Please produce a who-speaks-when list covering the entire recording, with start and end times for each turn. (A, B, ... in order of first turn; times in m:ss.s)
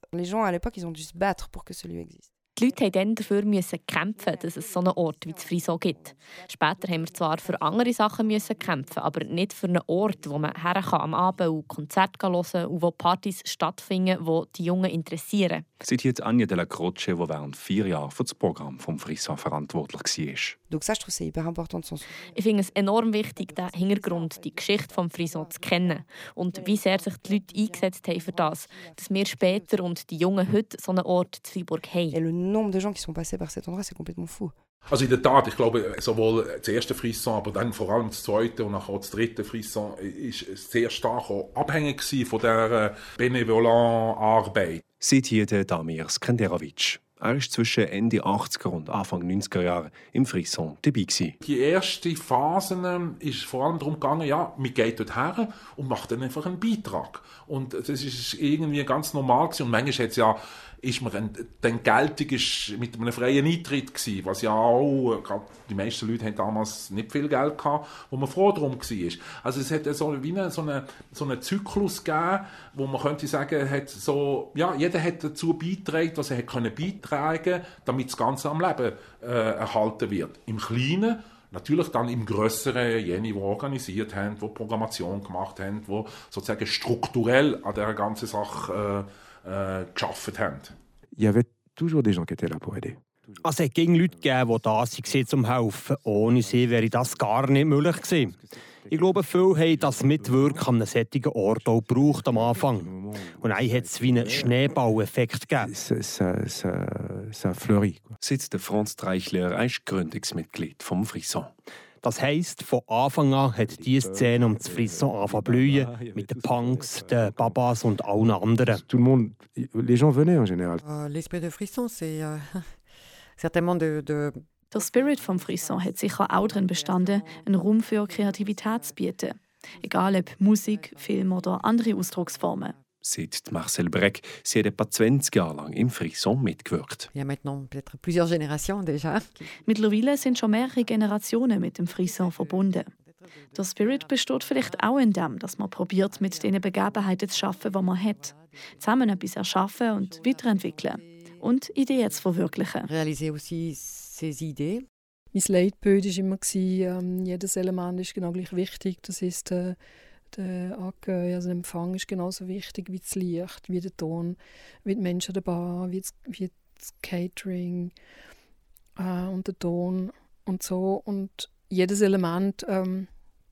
0:00.1-0:02.3 A
0:02.6-0:15.6 B
0:15.8-0:20.6 C
0:20.7-0:22.1 A
0:22.3-0:32.2 B
0:32.1-0:34.5 A
0:34.9-0:44.8 D
0:45.0-0:51.4 C
0:51.4-1:30.7 D
1:31.2-1:35.3 E
1:33.4-1:38.4 F
1:36.0-1:40.8 E
1:38.9-1:45.7 F
1:41.6-1:44.9 E
1:45.6-1:48.1 E
1:48.2-1:51.5 C
1:52.0-1:58.8 F
1:53.5-1:58.0 E
1:58.6-2:00.8 E
2:00.8-2:02.8 G
2:03.4-2:04.5 G
2:04.7-2:12.7 H
2:13.0-2:17.1 C
2:17.1-2:19.5 G
2:19.7-2:22.9 H
2:23.6-2:32.9 H
2:32.9-2:34.9 G
2:35.3-2:39.8 I
2:40.3-2:47.9 I
2:49.0-2:53.1 I